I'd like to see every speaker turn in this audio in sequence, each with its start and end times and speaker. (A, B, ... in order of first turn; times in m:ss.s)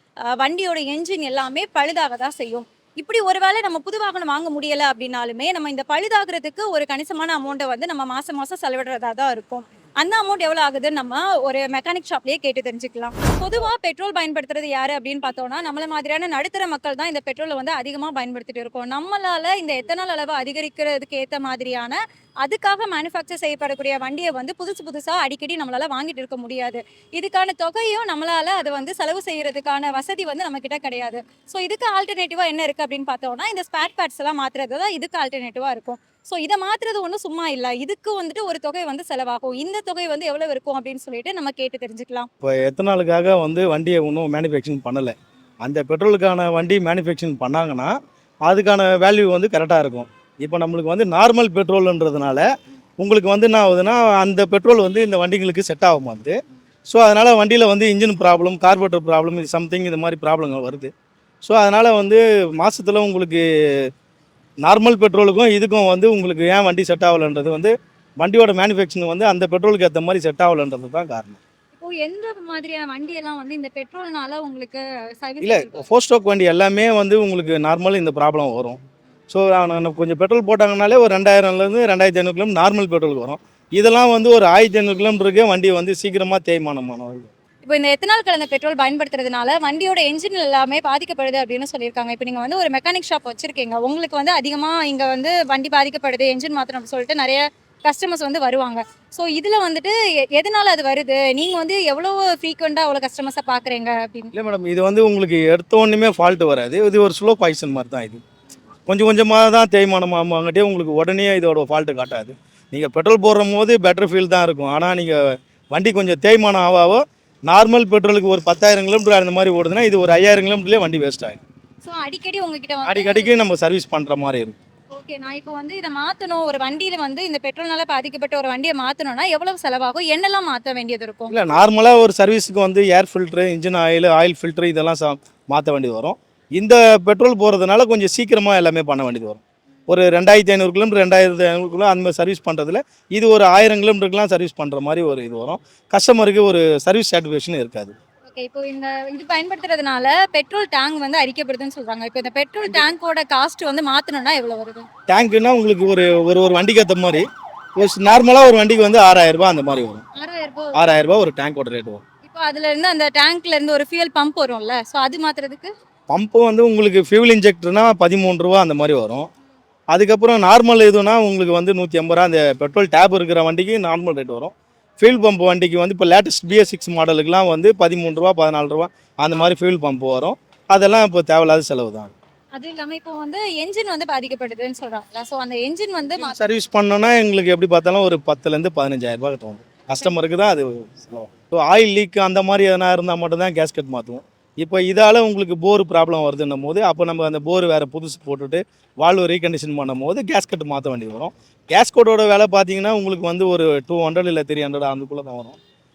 0:00.3-0:42.3 A
0:42.4-0:48.0 B
0:48.5-0:52.4 B
0:53.0-1:00.9 B
1:01.4-1:03.9 B
1:04.6-1:11.4 B
1:11.8-1:15.8 A
1:15.4-1:27.3 B
1:27.6-1:44.3 A
1:44.3-1:48.2 B
1:48.9-2:01.4 B
2:01.8-2:03.3 A
2:02.8-2:04.6 B
2:04.9-2:11.4 A
2:11.3-2:27.9 B
2:28.3-2:34.8 A
2:35.1-2:40.0 B
2:40.2-2:40.8 A
2:40.7-2:42.0 B
2:42.2-2:45.7 A
2:46.1-2:49.3 B
2:49.9-3:02.1 B
3:02.5-3:06.4 A
3:06.2-3:25.6 B